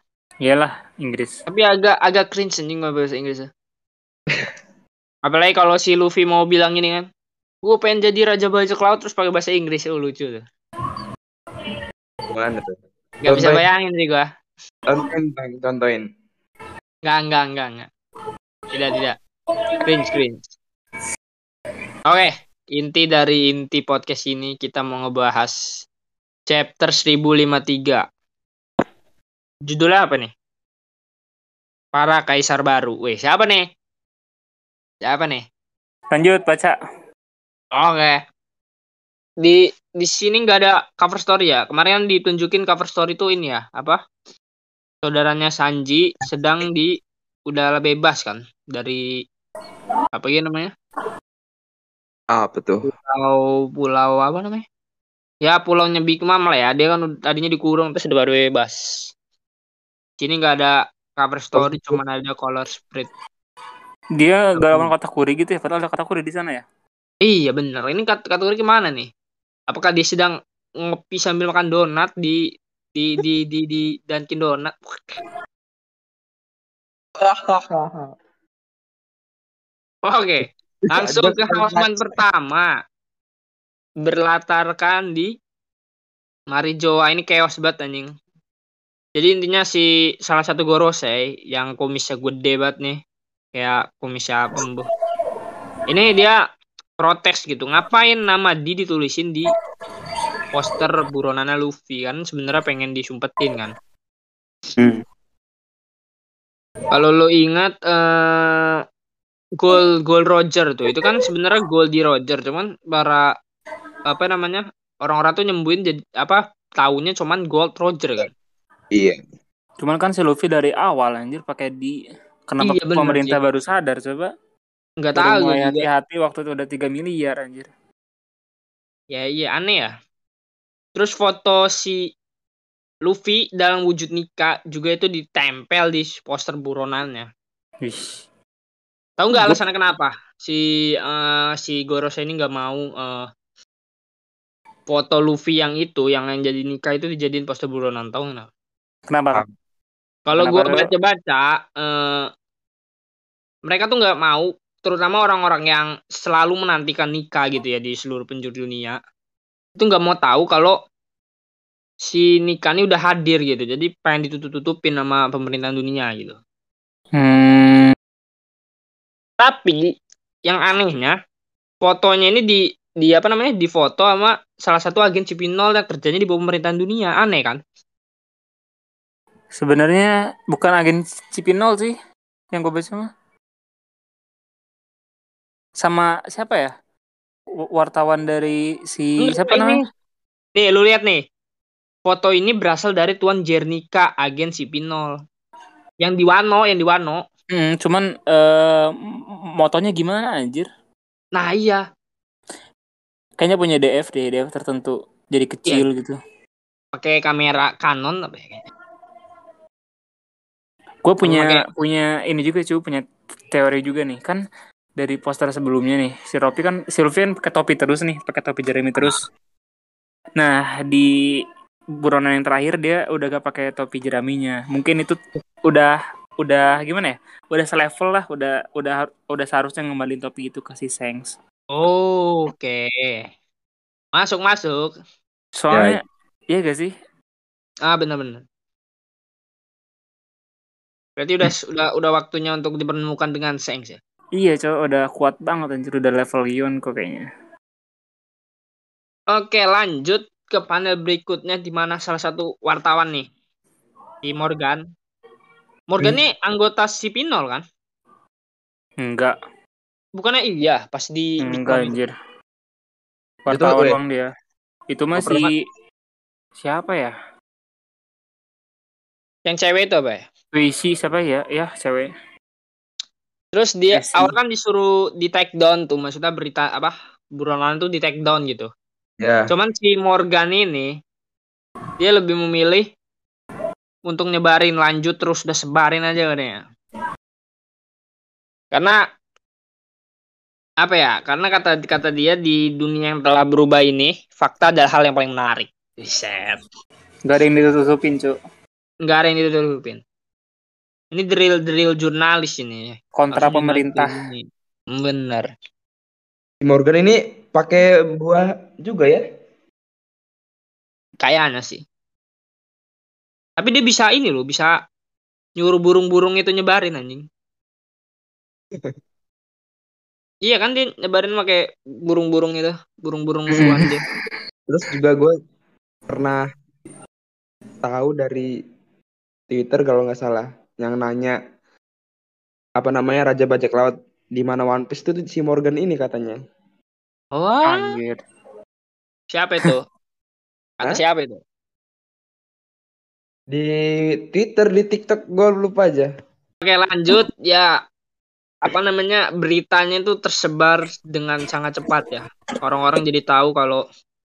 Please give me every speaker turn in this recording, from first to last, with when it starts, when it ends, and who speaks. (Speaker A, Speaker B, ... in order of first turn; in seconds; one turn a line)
Speaker A: 0.4-1.4
Speaker B: 1.5-3.5
Speaker B: 5.2-7.0
Speaker B: 7.6-10.4
Speaker C: 12.3-13.6
Speaker B: 13.2-14.3
Speaker C: 14.9-16.0
Speaker B: 17.0-17.9
Speaker B: 18.7-19.2
Speaker B: 19.8-20.4
Speaker B: 22.1-25.6
Speaker B: 26.5-28.0
Speaker B: 29.7-30.3
Speaker B: 31.9-33.6
Speaker B: 35.0-35.4
Speaker A: 36.1-36.8
Speaker B: 37.8-38.2
Speaker B: 39.4-44.0
Speaker B: 45.0-47.0
Speaker B: 47.5-49.0
Speaker B: 50.1-50.7
Speaker C: 52.3-52.9
Speaker B: 52.8-54.6
Speaker B: 55.4-59.1
Speaker B: 60.2-63.1
Speaker C: 61.5-62.0
Speaker A: 64.2-66.6
Speaker C: 64.6-64.9
Speaker B: 67.2-69.1
Speaker B: 69.7-72.4
Speaker B: 72.9-75.0
Speaker C: 77.2-78.1
Speaker B: 80.0-82.7
Speaker C: 80.9-82.0
Speaker B: 84.0-85.3
Speaker B: 86.5-88.1
Speaker B: 89.2-93.0
Speaker B: 93.5-94.8
Speaker B: 95.9-96.4
Speaker B: 97.0-99.5
Speaker B: 100.5-103.7
Speaker C: 104.8-105.0
Speaker B: 106.9-108.8
Speaker B: 109.6-113.3
Speaker B: 114.1-118.3
Speaker A: 119.8-124.3
Speaker B: 122.6-123.4
Speaker B: 125.0-125.8
Speaker A: 125.2-127.7
Speaker B: 129.1-129.9
Speaker B: 130.9-132.1
Speaker B: 133.1-137.3
Speaker A: 137.8-138.2
Speaker B: 139.2-143.3
Speaker B: 144.9-148.5
Speaker A: 149.1-149.4
Speaker B: 150.3-152.3
Speaker A: 150.3-150.9
Speaker B: 153.7-159.0
Speaker B: 159.8-160.8
Speaker B: 162.0-166.4
Speaker A: 167.1-167.9
Speaker B: 169.4-169.9
Speaker B: 170.5-171.1
Speaker B: 171.8-177.6
Speaker A: 179.6-181.9
Speaker A: 182.5-183.1
Speaker A: 185.8-186.7
Speaker A: 187.6-189.8
Speaker B: 189.2-189.8
Speaker B: 190.6-191.2
Speaker B: 192.1-195.2
Speaker B: 196.0-197.2
Speaker A: 197.5-200.7
Speaker B: 201.3-201.8
Speaker A: 203.4-206.2
Speaker B: 206.9-208.6
Speaker A: 211.0-214.4
Speaker B: 211.2-211.6
Speaker A: 215.0-219.2
Speaker A: 220.4-221.1
Speaker A: 222.0-231.3
Speaker B: 231.7-233.3
Speaker B: 234.1-234.9
Speaker A: 235.6-236.9
Speaker C: 235.7-236.0
Speaker B: 237.8-238.4
Speaker B: 241.2-244.0
Speaker A: 244.4-247.3
Speaker B: 249.3-253.2
Speaker B: 254.2-254.8
Speaker B: 255.9-257.6
Speaker A: 259.0-259.4
Speaker B: 260.2-262.0
Speaker A: 261.4-262.1
Speaker A: 263.4-264.3
Speaker C: 263.5-264.0
Speaker A: 264.9-265.5
Speaker C: 265.2-265.5
Speaker A: 266.6-267.1
Speaker B: 269.5-270.2
Speaker A: 270.5-272.1
Speaker B: 273.5-278.7
Speaker A: 273.9-274.3
Speaker C: 279.2-279.5
Speaker B: 279.5-280.9
Speaker B: 282.0-282.9
Speaker B: 284.1-286.6
Speaker B: 288.7-289.0
Speaker B: 290.8-296.6
Speaker A: 297.3-298.3
Speaker B: 299.0-300.0
Speaker B: 301.1-305.5
Speaker A: 303.1-304.2
Speaker C: 306.6-309.2
Speaker B: 311.2-311.8
Speaker B: 313.6-314.7
Speaker B: 315.6-317.2
Speaker B: 320.4-324.0
Speaker A: 323.5-323.9
Speaker C: 324.7-325.3
Speaker C: 326.1-326.4
Speaker C: 327.8-328.5
Speaker C: 329.5-331.4
Speaker C: 332.8-336.4
Speaker B: 337.3-337.9
Speaker A: 337.6-338.2
Speaker B: 339.3-339.8
Speaker B: 340.8-341.4
Speaker C: 343.5-346.1
Speaker B: 346.6-347.7
Speaker B: 348.6-353.8